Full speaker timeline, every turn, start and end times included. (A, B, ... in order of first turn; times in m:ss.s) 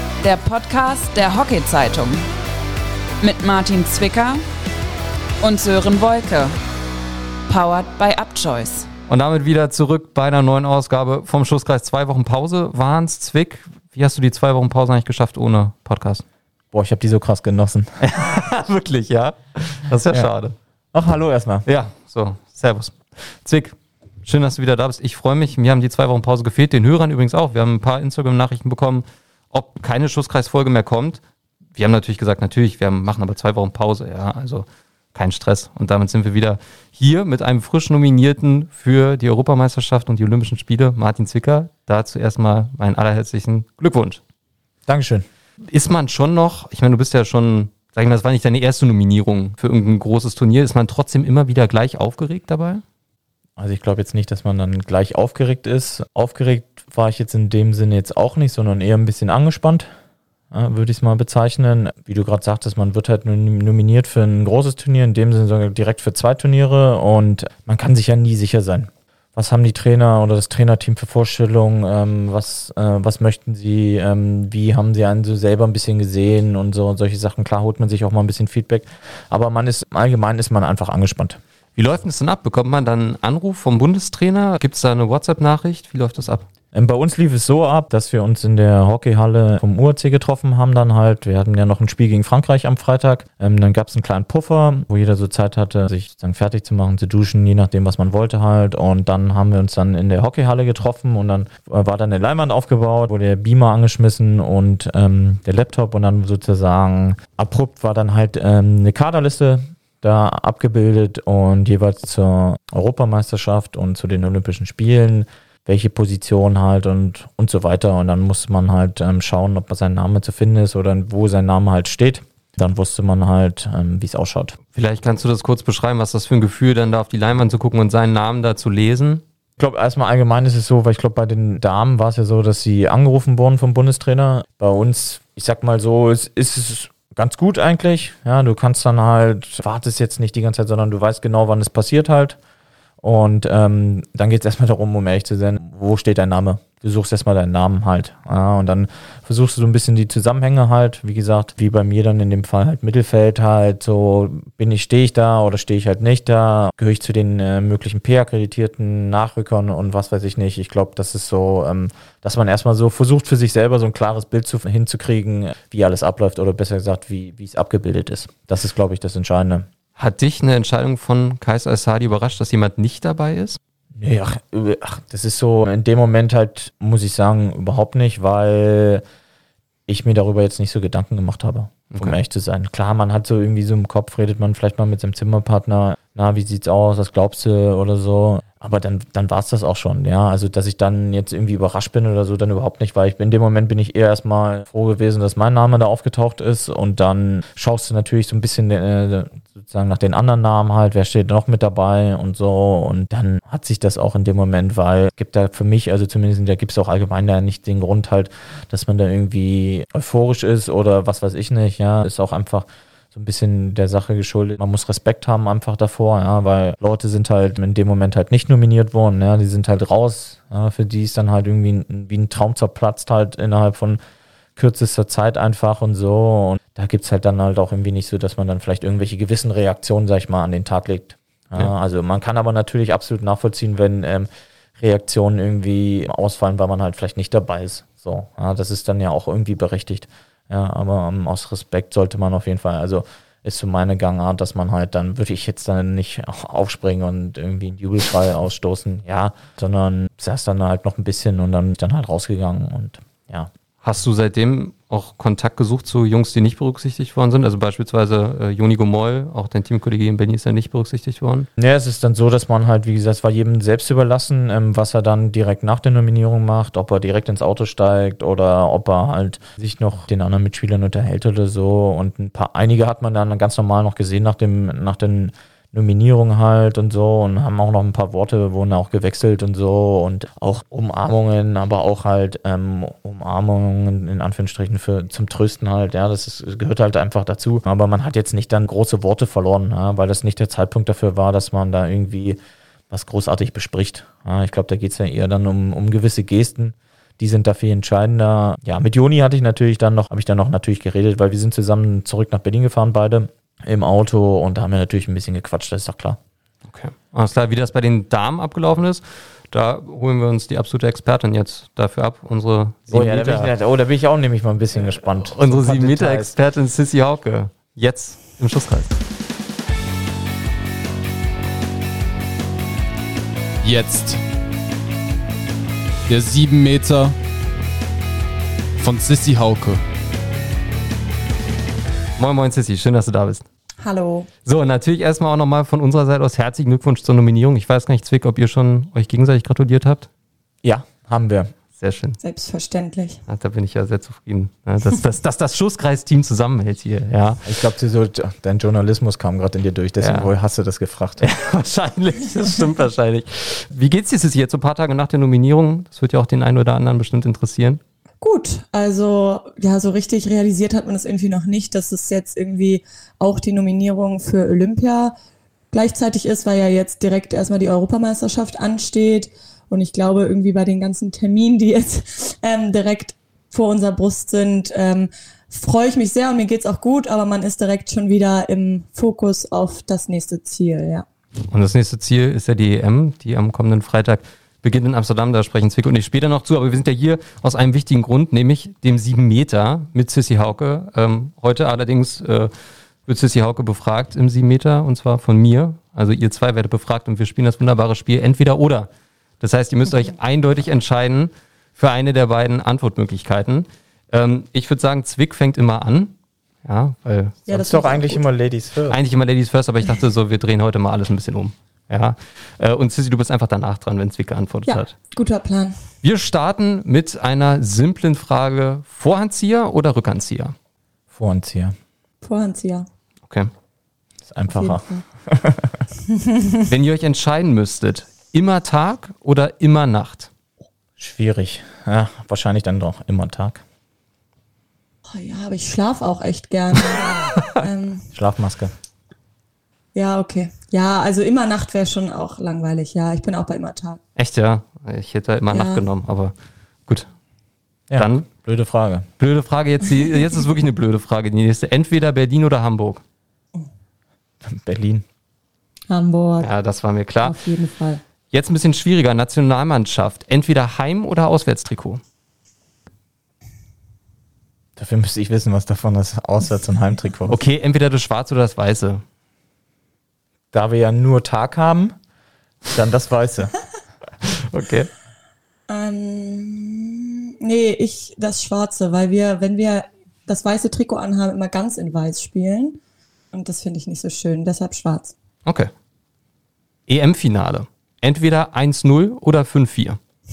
0:00.2-0:02.3 A
0:03.2-0:04.4 A
0:05.4-0:06.6 A
0:07.5-0:08.9 A
0:09.1-0:16.2 B
0:16.7-0:18.0 C
0:18.0-0:20.5 B
0:20.9-0:21.7 C
0:21.7-0:31.2 B
0:31.8-0:44.2 B
0:44.9-0:45.2 C
0:45.6-0:52.8 B
0:53.6-0:59.9 C
1:00.5-1:21.4 C
1:21.8-1:26.5 B
1:26.7-2:04.6 C
2:04.7-2:09.2 B
2:09.6-2:22.4 C
2:23.0-2:49.7 C
2:50.0-2:53.6 B
2:54.0-2:59.0 C
2:59.9-3:44.0 C
3:44.6-4:13.5 C
4:13.8-4:21.5 B
4:21.6-4:52.4 C
4:52.9-5:06.2 C
5:06.7-5:13.5 B
5:12.9-5:16.3 C
5:15.2-5:18.9 B
5:23.6-5:24.2 D
5:26.1-5:27.2 D
5:28.8-5:29.8 D
5:32.2-5:33.5 B
5:33.8-5:34.3 E
5:34.4-5:40.1 B
5:40.6-5:41.5 C
5:41.8-5:42.2 B
5:42.2-5:43.2 E
5:43.3-5:47.5 B
5:47.4-5:51.3 C
5:50.0-5:50.3 B
5:51.2-5:57.8 B
5:58.2-6:05.1 E
6:05.7-6:21.1 E
6:21.5-6:32.5 B
6:33.1-6:38.9 B
6:39.4-6:47.8 B
6:47.5-6:48.2 E
6:47.5-6:49.0 C
6:48.9-6:54.9 B
6:54.7-6:55.8 E
6:56.0-7:00.5 B
7:01.1-7:01.8 C
7:02.2-7:02.9 E
7:04.3-7:05.8 C
7:04.5-7:05.0 E
7:06.2-7:06.6 E
7:06.7-7:10.3 B
7:11.0-7:13.6 C
7:15.1-7:18.1 E
7:18.1-7:18.7 C
7:19.9-7:24.0 E
7:24.2-7:26.3 B
7:25.5-7:25.8 E
7:27.9-7:29.1 C
7:27.9-7:28.3 B
7:29.2-7:33.0 B
7:34.4-7:35.0 C
7:35.9-7:36.5 E
7:36.4-7:37.4 B
7:37.2-7:38.0 E
7:38.3-7:42.0 B
7:44.8-7:47.4 C
7:47.3-7:49.0 B
7:50.5-7:52.0 C
7:52.7-7:53.5 C
7:54.3-7:54.9 B
7:55.7-8:02.8 E
8:03.3-8:05.2 E
8:05.4-8:05.7 B
8:06.9-8:10.0 B